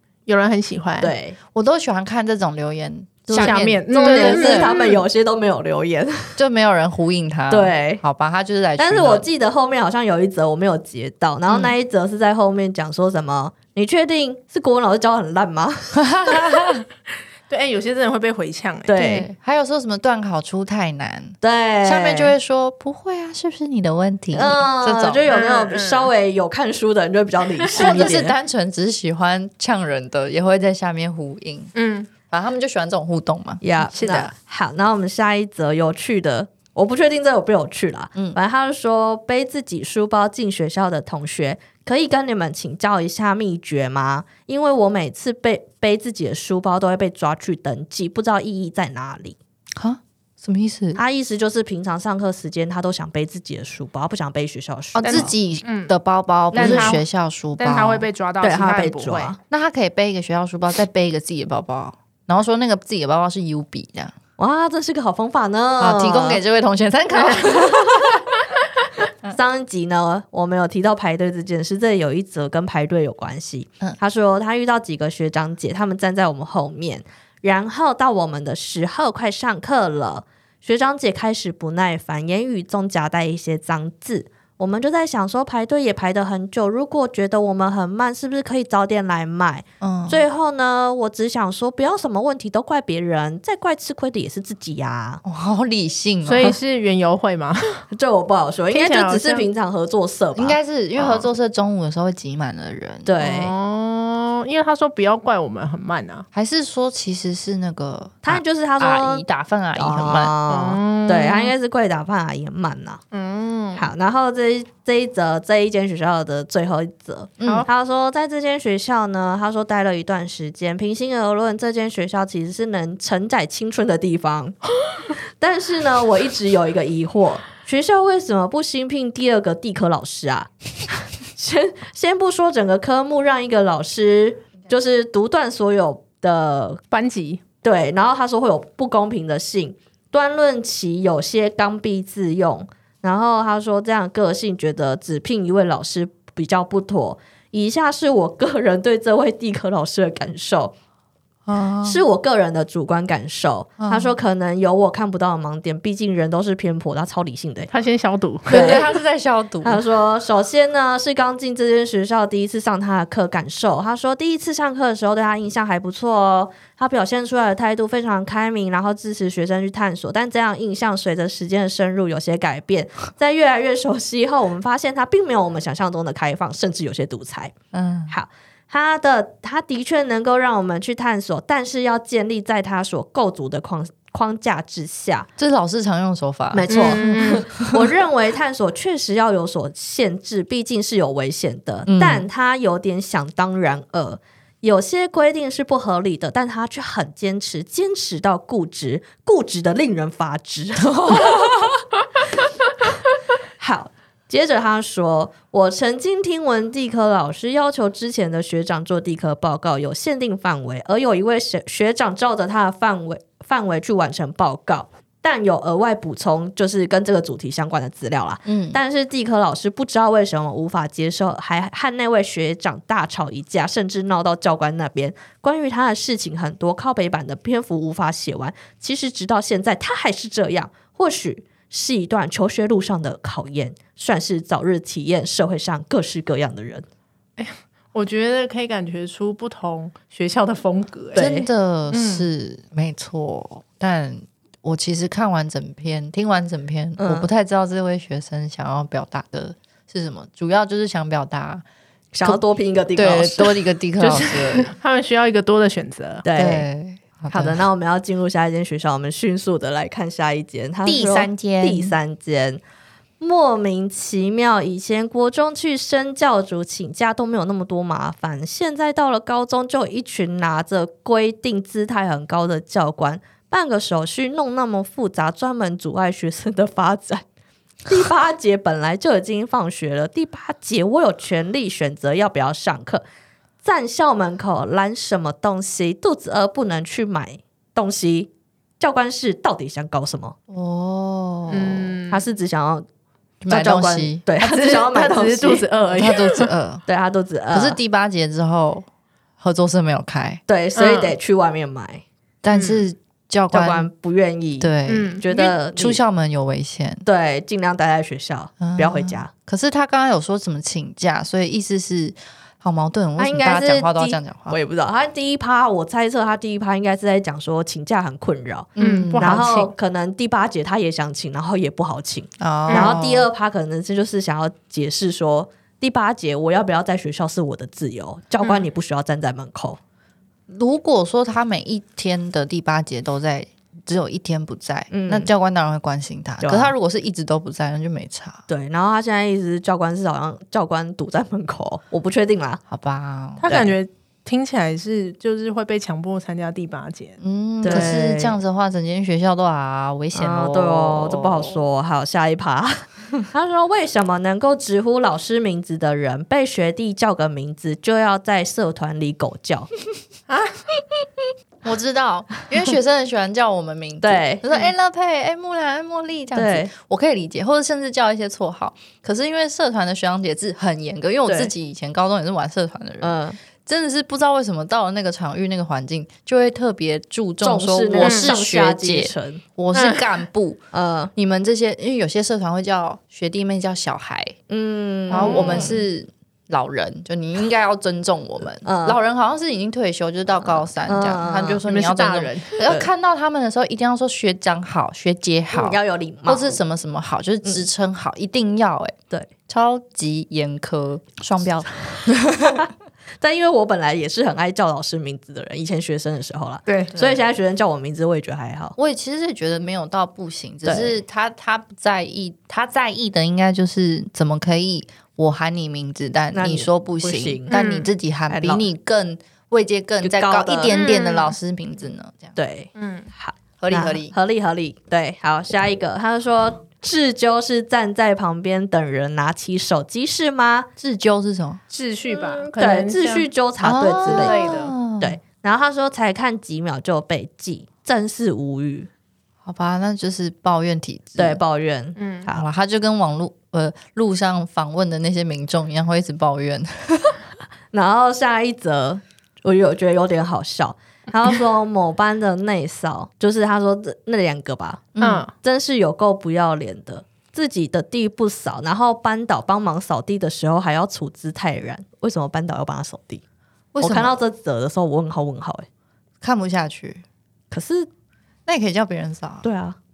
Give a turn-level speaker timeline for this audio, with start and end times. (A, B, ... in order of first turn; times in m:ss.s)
0:00.3-0:01.1 A
0:01.0-0:01.4 B
0:01.5-0:04.7 C
0:03.3-0:06.4 B
0:03.4-0:05.0 A
0:06.4-0:09.3 C
0:07.5-0:08.0 B
0:08.8-0:16.4 B
0:15.9-0:16.8 C
0:17.5-0:19.1 A
0:18.9-0:19.3 B
0:19.0-0:25.3 C
0:21.4-0:22.3 B
0:24.3-0:28.3 B
0:25.3-0:26.1 A
0:27.6-0:28.0 A
0:27.8-0:31.7 C
0:31.7-0:32.1 A
0:32.3-0:34.3 C
0:33.6-0:49.4 B
0:33.9-0:34.3 A
0:49.8-0:51.0 C
0:51.0-0:55.3 B
0:54.9-0:58.1 C
0:55.0-0:55.9 A
0:56.5-0:57.0 A
0:56.5-0:57.0 B
0:57.6-0:59.4 A
0:58.4-0:59.4 B
0:59.5-1:04.1 C
1:04.4-1:06.4 B
1:05.8-1:08.2 C
1:07.4-1:07.8 B
1:09.2-1:35.2 B
1:29.8-1:30.2 C
1:35.2-1:36.6 C
1:36.2-1:37.8 A
1:37.9-1:41.2 B
1:38.7-1:39.5 A
1:40.4-1:43.1 C
1:43.0-1:43.5 B
1:43.2-1:46.3 A
1:46.3-1:50.3 C
1:48.2-1:49.2 B
1:49.8-1:53.0 B
1:50.5-1:51.5 A
1:53.1-1:53.9 A
1:53.7-2:04.6 B
1:57.4-1:57.6 C
2:05.4-2:16.8 B
2:16.9-2:17.4 A
2:17.6-2:30.7 B
2:31.5-2:32.0 C
2:31.8-2:37.7 B
2:33.8-2:34.1 C
2:37.7-2:38.9 A
2:38.5-2:38.9 B
2:38.5-2:39.8 C
2:39.6-2:57.5 B
2:57.7-2:58.1 C
2:58.1-3:05.3 B
3:05.4-3:07.8 C
3:06.5-3:21.6 B
3:06.7-3:07.4 A
3:11.9-3:12.3 C
3:20.8-3:21.7 C
3:23.6-3:56.8 B
3:38.4-3:38.8 C
3:57.4-4:01.3 A
4:01.1-4:01.5 B
4:01.1-4:11.6 C
4:01.9-4:02.3 A
4:07.0-4:07.3 B
4:12.1-4:13.6 B
4:13.0-4:14.7 C
4:14.0-4:16.2 A
4:16.2-4:16.7 B
4:16.3-4:17.6 C
4:17.3-4:22.6 B
4:20.8-4:21.9 C
4:23.2-4:37.2 B
4:37.9-4:43.0 B
4:43.6-4:50.4 B
4:50.5-4:52.0 C
4:51.5-4:52.3 A
4:52.1-4:52.8 B
4:53.4-4:54.2 C
4:53.5-4:55.6 B
4:54.4-4:56.5 A
4:55.9-4:56.8 C
4:56.9-4:57.8 B
4:57.5-4:58.8 C
4:59.4-5:00.4 C
5:00.5-5:02.0 B
5:00.8-5:01.2 A
5:02.4-5:03.9 C
5:02.5-5:02.8 A
5:03.5-5:06.0 B
5:04.6-5:07.0 C
5:04.9-5:05.2 A
5:07.0-5:09.3 B
5:08.6-5:14.6 C
5:13.2-5:29.8 B
5:18.8-5:19.4 C
5:18.8-5:19.7 A
5:22.4-5:23.3 C
5:22.7-5:23.0 A
5:30.5-5:38.4 C
5:34.9-5:35.3 B
5:36.4-5:36.7 B
5:38.5-5:42.6 B
5:42.7-5:43.6 C
5:43.4-5:47.9 A
5:43.5-5:43.7 B
5:47.2-5:51.6 C
5:47.6-5:48.4 B
5:50.1-5:59.7 B
6:00.3-6:00.6 A
6:01.6-6:20.6 C
6:04.0-6:04.4 B
6:06.3-6:06.7 B
6:11.3-6:11.5 B
6:13.0-6:13.4 B
6:17.4-6:19.4 B
6:18.0-6:18.3 A
6:19.7-6:20.1 A
6:20.7-6:21.1 B
6:21.2-6:24.4 C
6:24.5-6:25.8 B
6:25.1-6:38.9 C
6:25.1-6:25.8 A
6:28.6-6:29.0 B
6:30.8-6:31.6 B
6:31.6-6:32.6 A
6:35.5-6:36.6 B
6:39.5-6:42.6 C
6:43.2-6:48.8 B
6:46.7-6:47.2 A
6:48.8-7:02.4 C
6:50.6-6:51.0 B
6:56.3-6:57.5 B
6:57.5-6:57.9 A
6:58.3-6:58.6 B
7:00.0-7:00.8 B
7:00.7-7:01.4 A
7:02.4-7:10.7 B
7:02.8-7:03.1 A
7:03.6-7:04.1 C
7:10.8-7:11.6 C
7:11.7-7:13.3 A
7:12.1-7:14.5 B
7:13.6-7:15.2 C
7:14.0-7:14.7 A
7:15.0-7:18.9 B
7:19.4-7:21.4 C
7:21.2-7:22.4 B
7:22.0-7:22.3 A
7:22.3-7:27.2 C
7:27.7-7:43.2 B
7:35.0-7:35.2 C
7:35.0-7:35.3 A
7:43.7-7:44.2 C
7:43.8-7:45.7 B
7:46.2-7:47.0 C
7:47.5-7:47.9 B
7:48.5-7:49.4 C
7:49.4-7:49.8 B